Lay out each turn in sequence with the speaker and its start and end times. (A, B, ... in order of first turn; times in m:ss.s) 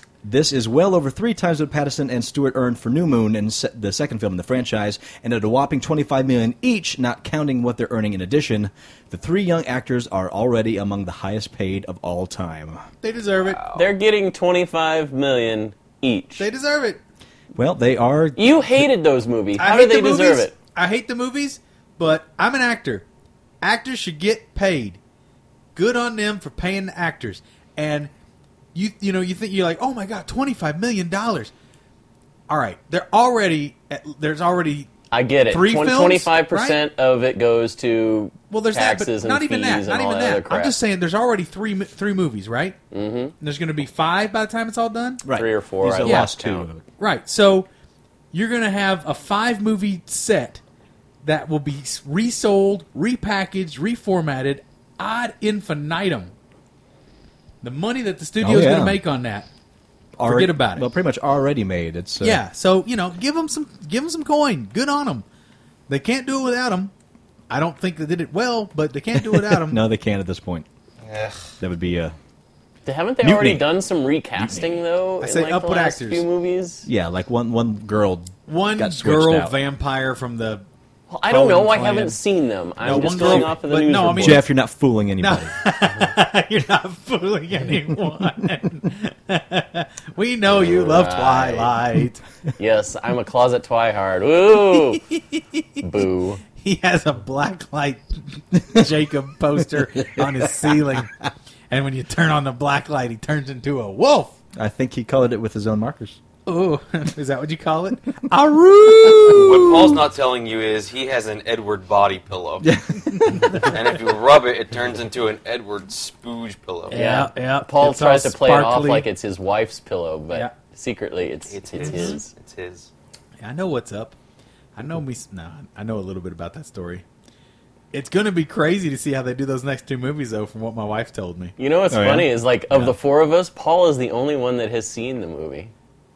0:00.2-0:12.8 A
0:13.0-0:13.6 B
0:13.4-0:13.9 C
0:13.7-0:16.5 D
0:16.4-0:17.0 B
0:17.6-0:18.7 A
0:18.4-0:20.6 D
0:19.6-0:23.1 B
0:23.6-0:25.0 B
0:25.8-0:28.1 B
0:28.7-0:31.5 B
0:32.5-0:34.9 B
0:35.1-0:40.8 D
0:35.5-0:36.9 B
0:38.5-0:42.8 B
0:42.9-0:43.3 D
0:43.4-0:45.2 B
0:45.2-0:46.8 A
0:45.3-0:46.7 D
0:46.0-0:46.3 B
0:47.0-0:47.7 B
0:48.3-0:50.6 B
0:51.2-0:56.3 B
0:57.6-0:59.5 B
0:58.4-0:59.0 A
1:00.2-1:02.4 A
1:00.2-1:00.9 B
1:02.2-1:05.2 B
1:05.9-1:06.9 B
1:07.5-1:09.8 B
1:09.2-1:10.7 A
1:11.0-1:11.5 C
1:11.6-1:12.2 A
1:12.8-1:16.9 D
1:13.2-1:13.7 A
1:15.2-1:16.2 B
1:16.8-1:19.6 A
1:18.5-1:20.7 B
1:21.1-1:24.5 D
1:21.3-1:22.2 B
1:22.8-1:24.5 B
1:23.1-1:23.5 C
1:24.2-1:25.6 A
1:25.2-1:32.2 B
1:30.5-1:31.8 D
1:32.6-1:35.0 D
1:34.8-1:35.8 B
1:35.8-1:36.4 D
1:36.5-1:44.4 B
1:40.2-1:40.6 A
1:44.6-1:46.2 A
1:46.5-1:50.0 B
1:49.2-1:52.7 C
1:52.6-1:53.7 A
1:53.3-1:53.6 B
1:53.5-1:57.0 C
1:56.9-1:59.1 B
1:56.9-2:02.3 D
2:01.5-2:02.9 C
2:01.8-2:02.2 B
2:03.4-2:04.2 B
2:04.8-2:07.0 B
2:07.9-2:11.5 B
2:11.6-2:15.7 D
2:11.9-2:13.0 A